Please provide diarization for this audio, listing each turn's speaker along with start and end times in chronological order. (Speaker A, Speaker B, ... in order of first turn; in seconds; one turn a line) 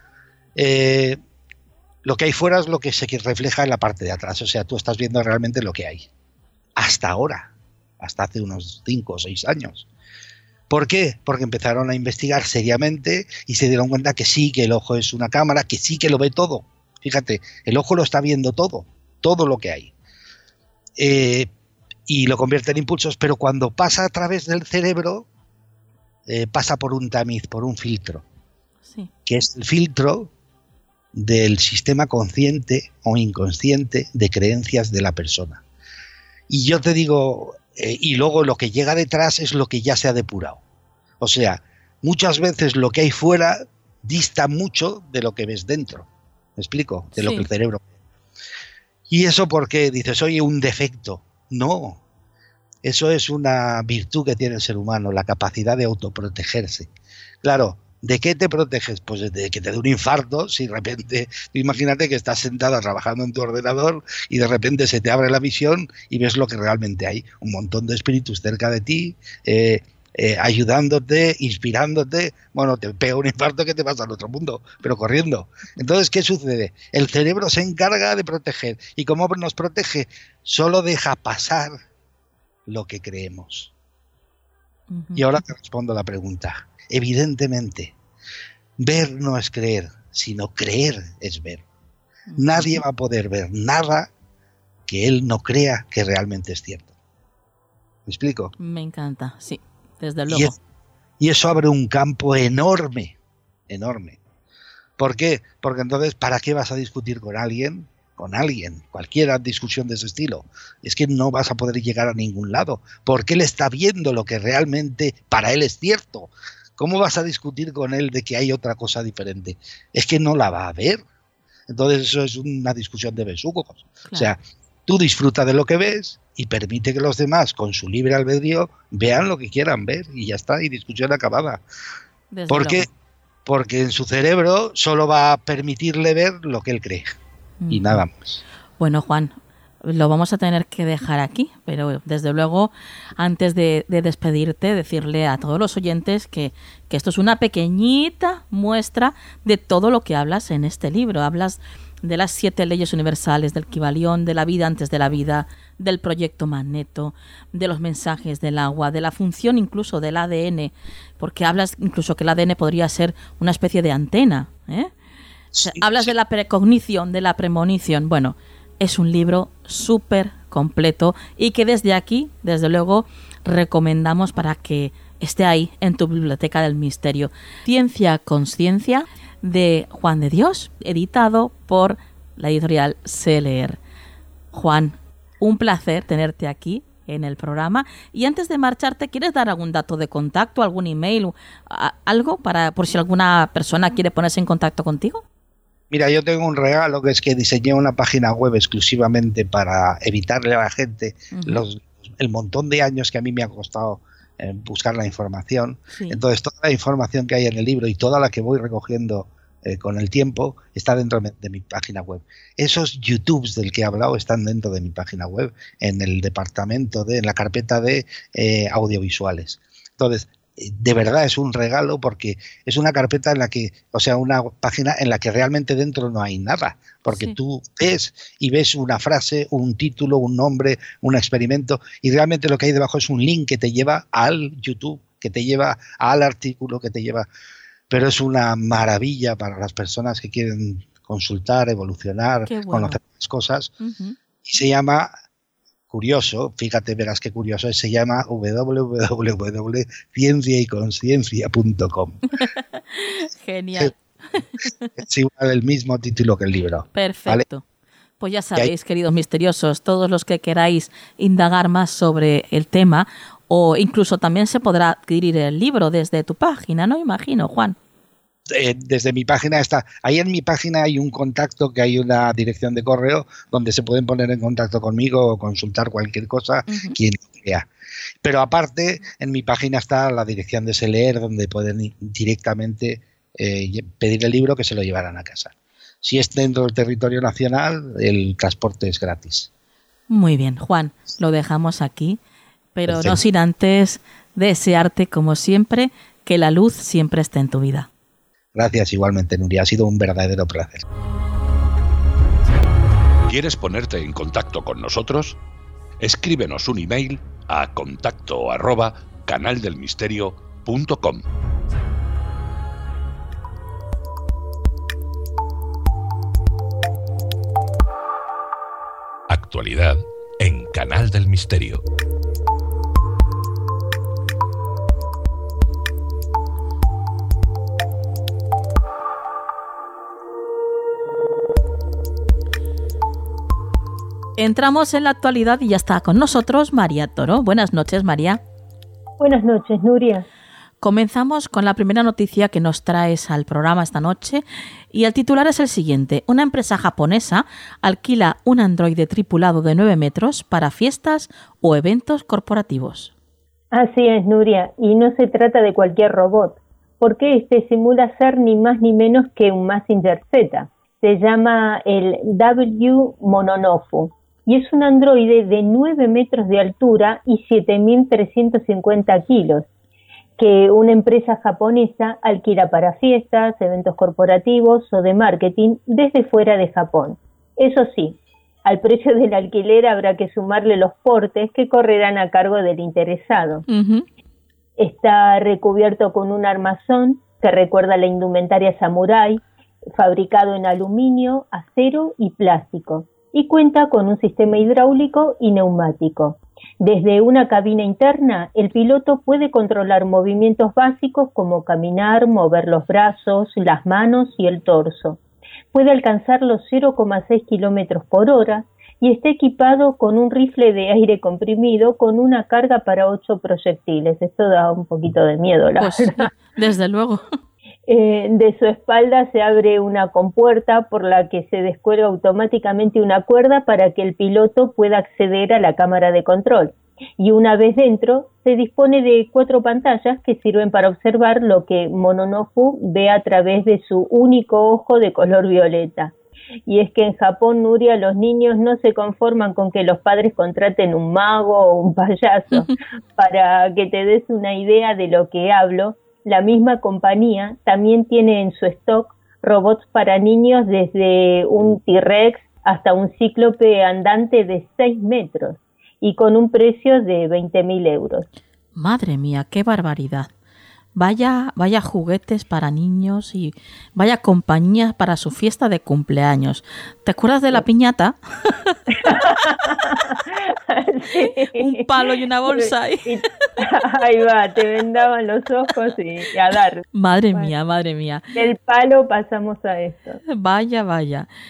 Speaker A: 0.6-1.2
Speaker A: 2.0-6.1
Speaker A: 6.8-9.9
Speaker A: 10.7-19.9
Speaker A: 21.0-21.5
Speaker A: 22.1-25.3
Speaker A: 26.3-28.2
Speaker B: 28.9-29.1
Speaker A: 29.3-30.3
Speaker A: 31.1-35.6
Speaker A: 36.5-40.6
Speaker A: 41.2-47.8
Speaker B: 47.1-47.5
Speaker A: 49.1-52.0
Speaker A: 52.8-56.9
Speaker A: 57.4-81.8
Speaker A: 82.7-83.7
Speaker B: 84.9-85.3
Speaker A: 85.2-87.9
Speaker A: 88.8-91.6
Speaker B: 92.3-92.8
Speaker A: 92.4-94.1
Speaker A: 94.9-96.9
Speaker A: 98.1-98.5
Speaker B: 98.6-100.5
Speaker A: 100.3-100.5
Speaker A: 101.2-103.2
Speaker A: 103.7-104.2
Speaker A: 105.0-121.0
Speaker A: 121.7-131.6
Speaker B: 124.0-124.3
Speaker B: 132.3-132.9
Speaker A: 132.5-132.9
Speaker A: 133.5-137.2
Speaker B: 137.6-138.0
Speaker A: 137.7-138.4
Speaker B: 138.8-164.9
Speaker A: 165.5-166.1
Speaker B: 165.6-183.8
Speaker B: 184.5-195.2
Speaker A: 195.9-237.3
Speaker B: 201.3-201.7
Speaker B: 205.9-206.2
Speaker B: 227.1-227.4
Speaker A: 237.9-243.7
Speaker B: 242.5-243.0
Speaker B: 243.8-244.2
Speaker A: 244.4-245.1
Speaker A: 245.9-252.2
Speaker B: 252.4-254.9
Speaker A: 255.0-257.4
Speaker B: 256.9-257.6
Speaker B: 258.2-267.8
Speaker A: 268.5-277.7
Speaker B: 276.7-277.0
Speaker A: 278.2-289.5
Speaker B: 290.1-292.2
Speaker B: 292.8-297.9
Speaker A: 292.9-293.2
Speaker A: 298.6-300.8
Speaker C: 303.3-305.4
Speaker C: 306.0-311.2
Speaker C: 319.3-321.8
Speaker B: 334.4-338.4
Speaker D: 339.2-340.3
Speaker B: 340.8-353.1
Speaker D: 353.7-369.7
Speaker D: 370.4-383.6
Speaker B: 383.7-384.1
Speaker D: 384.8-389.4
Speaker D: 390.0-405.2
Speaker D: 405.7-416.3
Speaker B: 415.8-417.3
Speaker D: 417.9-436.1
Speaker D: 436.7-458.3
Speaker B: 458.8-460.3
Speaker B: 460.9-470.2
Speaker D: 469.0-477.5
Speaker B: 471.2-473.2
Speaker B: 476.9-478.2
Speaker D: 478.4-480.2
Speaker B: 480.3-481.3